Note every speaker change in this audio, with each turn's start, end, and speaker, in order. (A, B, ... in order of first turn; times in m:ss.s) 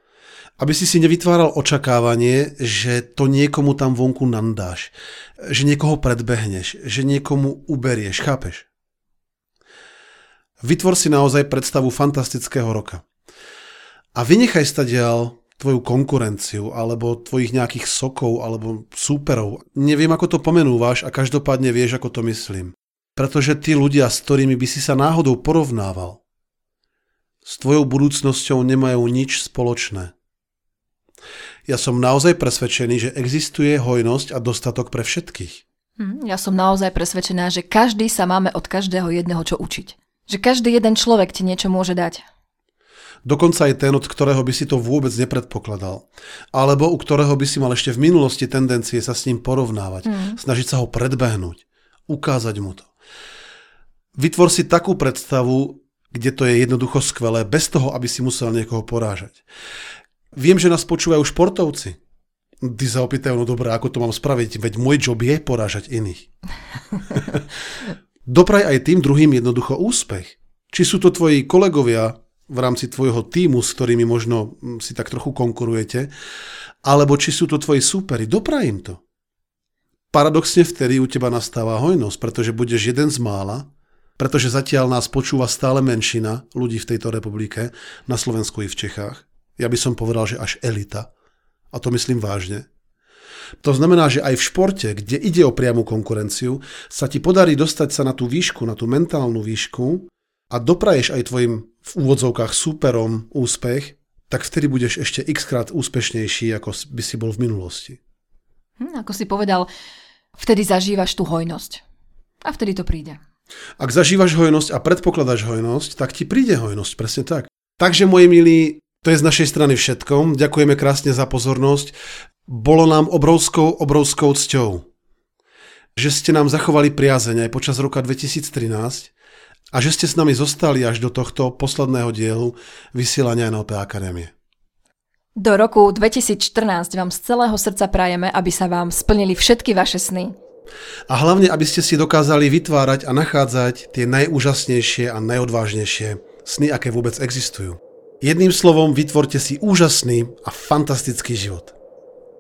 0:00.6-0:08.7 A
0:10.6-0:13.0 A
0:14.1-0:26.2 A
0:27.4-0:30.1 A
0:31.7-0:35.6 A
0:36.0-0:42.2 B
0:43.2-0:52.9 A
0:50.0-0:50.4 B
0:54.2-0:59.4 A
1:00.3-1:02.0 A
1:02.6-1:06.3 A
1:07.1-1:07.4 A
1:08.2-1:16.1 A
1:16.8-1:19.0 A
1:20.1-1:31.1 A
1:31.7-1:32.7 A
1:33.6-1:48.0 A
1:48.8-1:49.7 B
1:50.3-1:51.8 B
1:52.4-1:53.2 B
1:53.8-2:01.9 A
2:02.5-2:04.9 A
2:06.0-2:09.1 A
2:09.7-2:14.3 A
2:15.4-2:20.3 B
2:21.1-2:31.7 A